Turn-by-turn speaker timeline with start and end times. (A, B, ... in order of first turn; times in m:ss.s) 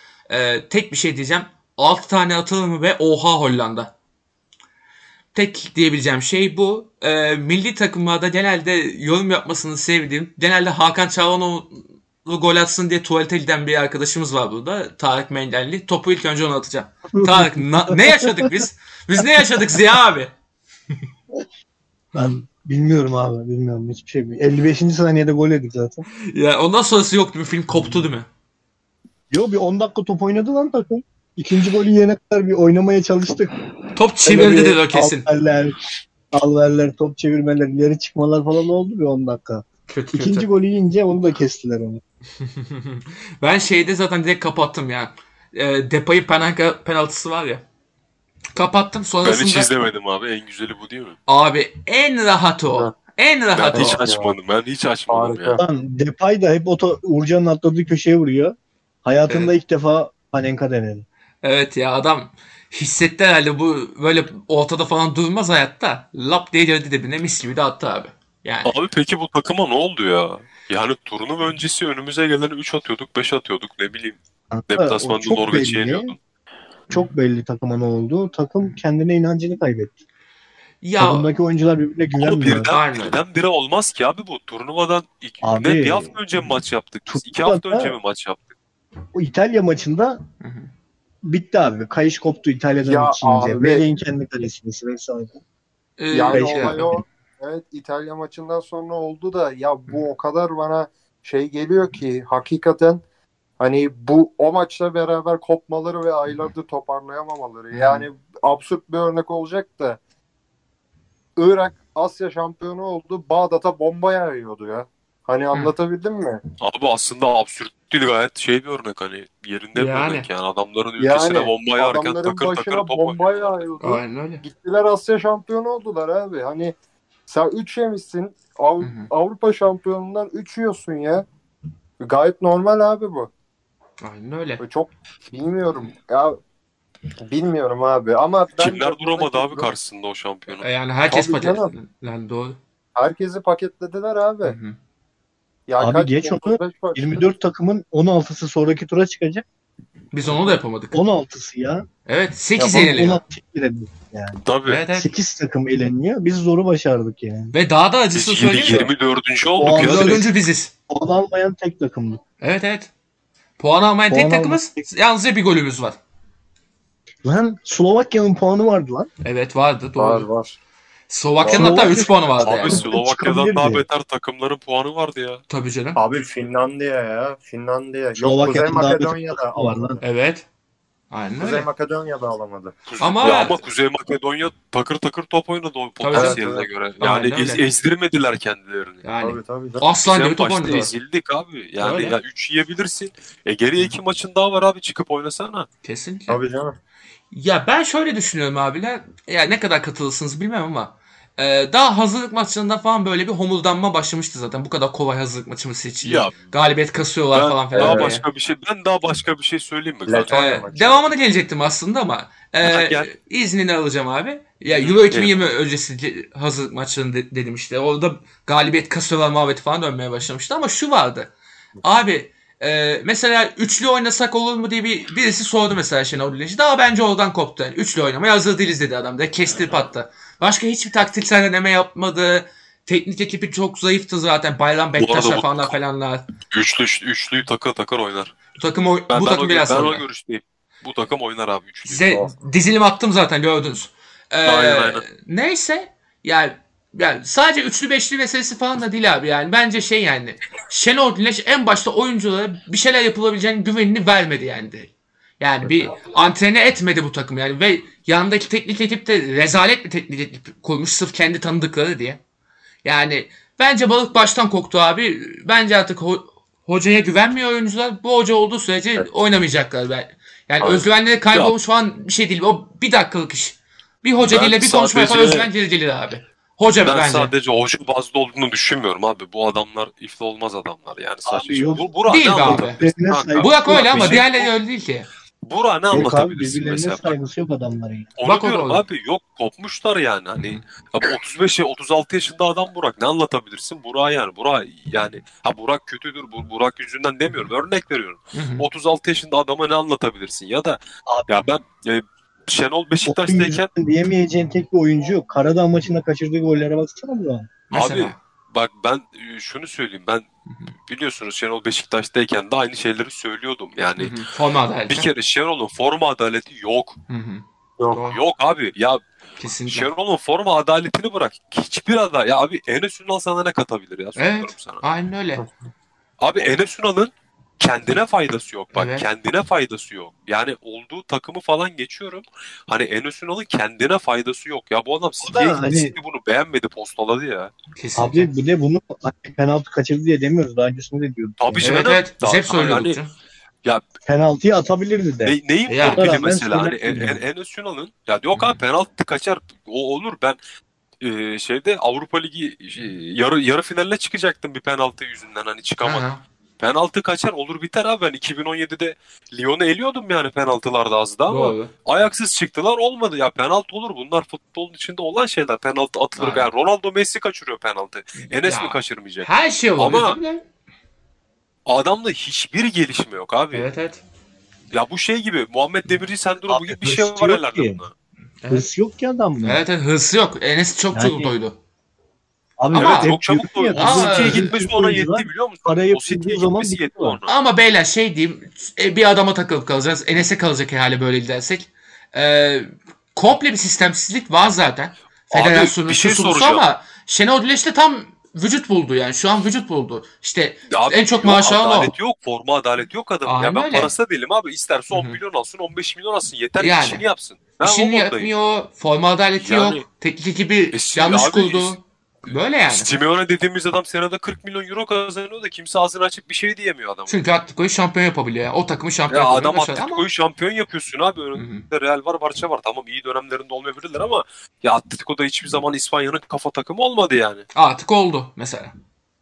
0:00.3-0:03.9 A
0:05.3-0:20.3 A
0:17.1-0:18.5 B
0:22.1-0:26.0 B
0:26.2-0:28.3 A
0:29.3-0:33.6 B
0:33.9-0:35.3 A
0:34.2-0:35.8 B
0:36.3-0:42.0 B
0:39.9-0:40.5 A
0:42.4-0:47.6 A
0:48.6-0:49.8 A
0:49.2-0:51.2 C
0:51.3-0:54.0 A
0:53.6-0:55.6 C
0:53.7-0:54.4 D
0:55.1-0:55.6 D
0:55.6-1:01.0 B
0:59.3-0:59.5 A
1:01.4-1:08.7 A
1:08.6-1:14.2 C
1:14.5-1:16.1 B
1:14.7-1:16.2 C
1:16.9-1:20.0 B
1:20.8-1:21.3 A
1:21.0-1:22.7 B
1:22.2-1:28.4 C
1:22.6-1:23.2 A
1:25.4-1:26.1 B
1:27.1-1:28.0 B
1:29.1-1:30.2 B
1:30.4-1:30.7 A
1:31.2-1:35.4 B
1:32.8-1:33.8 D
1:36.0-1:36.9 A
1:36.1-1:43.0 D
1:36.3-1:37.0 B
1:43.6-1:50.0 D
1:47.7-1:48.1 A
1:51.4-1:56.4 D
1:56.6-2:03.6 C
1:59.8-2:00.3 A
2:01.0-2:06.8 D
2:03.8-2:04.4 A
2:07.3-2:11.3 D
2:08.8-2:09.1 A
2:12.0-2:13.3 D
2:14.0-2:14.6 A
2:14.6-2:16.4 D
2:17.2-2:19.7 D
2:18.6-2:20.7 C
2:20.6-2:22.6 A
2:21.1-2:21.7 D
2:23.0-2:24.6 D
2:24.5-2:24.8 A
2:25.7-2:27.2 D
2:25.8-2:29.4 B
2:30.1-2:31.0 A
2:30.9-2:31.8 B
2:32.1-2:33.2 A
2:32.6-2:32.9 D
2:32.6-2:37.5 B
2:34.5-2:34.8 C
2:34.7-2:35.1 A
2:37.5-2:38.9 A
2:38.1-2:40.3 C
2:39.6-2:40.3 B
2:39.7-2:40.7 A
2:40.9-2:42.2 B
2:42.4-2:42.9 A
2:43.6-2:46.0 A
2:44.1-2:44.8 B
2:47.2-2:49.1 B
2:49.2-2:50.3 A
2:50.0-2:50.6 D
2:51.1-2:52.8 A
2:51.4-2:51.9 D
2:51.5-2:53.8 B
2:52.4-2:55.4 C
2:55.5-2:56.0 A
2:56.0-2:59.8 D
2:58.2-3:00.0 B
3:00.0-3:00.4 A
3:01.1-3:01.7 A
3:01.4-3:02.8 D
3:02.9-3:09.0 C
3:03.0-3:03.6 A
3:06.0-3:06.4 A
3:06.1-3:06.7 D
3:07.0-3:07.6 A
3:09.0-3:10.9 A
3:09.2-3:09.8 D
3:10.0-3:15.7 C
3:11.8-3:12.2 A
3:15.8-3:16.4 A
3:16.3-3:16.8 D
3:17.3-3:28.2 A
3:26.0-3:26.4 C
3:27.3-3:30.3 C
3:27.8-3:28.1 D
3:30.1-3:31.1 D
3:30.3-3:56.3 A
3:32.6-3:33.1 C
3:34.8-3:35.4 C
3:55.0-3:55.7 C
3:56.5-3:58.4 C
3:58.6-4:00.0 A
3:59.1-4:02.0 C
4:01.8-4:22.2 A
4:02.1-4:02.3 D
4:04.4-4:05.0 C
4:22.8-4:37.3 A
4:30.6-4:31.5 C
4:34.3-4:35.5 C
4:36.8-4:44.5 C
4:41.2-4:44.2 B
4:42.1-4:42.8 A
4:43.4-4:45.1 A
4:45.4-4:47.2 C
4:45.9-4:48.1 B
4:48.2-5:03.7 C
4:48.2-4:48.8 A
4:58.3-4:58.7 A
5:03.0-5:07.5 B
5:07.7-5:08.2 A
5:07.7-5:10.2 C
5:10.8-5:14.2 C
5:14.0-5:15.1 A
5:14.9-5:17.0 C
5:17.1-5:18.2 A
5:18.1-5:19.0 C
5:19.4-5:19.9 A
5:19.7-5:24.8 C
5:24.2-5:25.4 A
5:26.2-5:37.5 C
5:28.8-5:29.1 A
5:35.2-5:36.0 B
5:37.8-5:38.3 A
5:38.0-5:41.8 B
5:41.4-5:43.0 C
5:41.6-5:43.1 A
5:44.1-5:47.2 B
5:45.2-5:50.4 C
5:45.7-5:46.1 A
5:51.0-5:56.1 C
5:55.8-5:56.2 A
5:56.6-6:10.2 C
6:01.3-6:01.7 A
6:06.2-6:06.5 A
6:08.4-6:10.4 A
6:11.7-6:13.7 C
6:13.5-6:14.0 A
6:14.7-6:17.9 C
6:16.5-6:17.8 B
6:18.4-6:18.7 A
6:18.5-6:19.6 B
6:19.4-6:21.6 A
6:20.9-6:21.3 B
6:22.6-6:27.2 B
6:22.7-6:27.3 C
6:22.7-6:23.1 A
6:23.8-6:24.5 A
6:27.3-6:41.9 A
6:35.3-6:36.6 C
6:40.7-6:48.3 C
6:43.3-6:43.9 A
6:44.9-6:45.2 A
6:46.6-6:47.0 A
6:47.6-6:52.9 A
6:49.4-6:49.8 C
6:50.7-6:51.8 C
6:52.7-6:57.2 C
6:57.1-7:00.0 A
6:59.1-7:07.5 C
7:01.4-7:01.6 A
7:07.6-7:08.8 A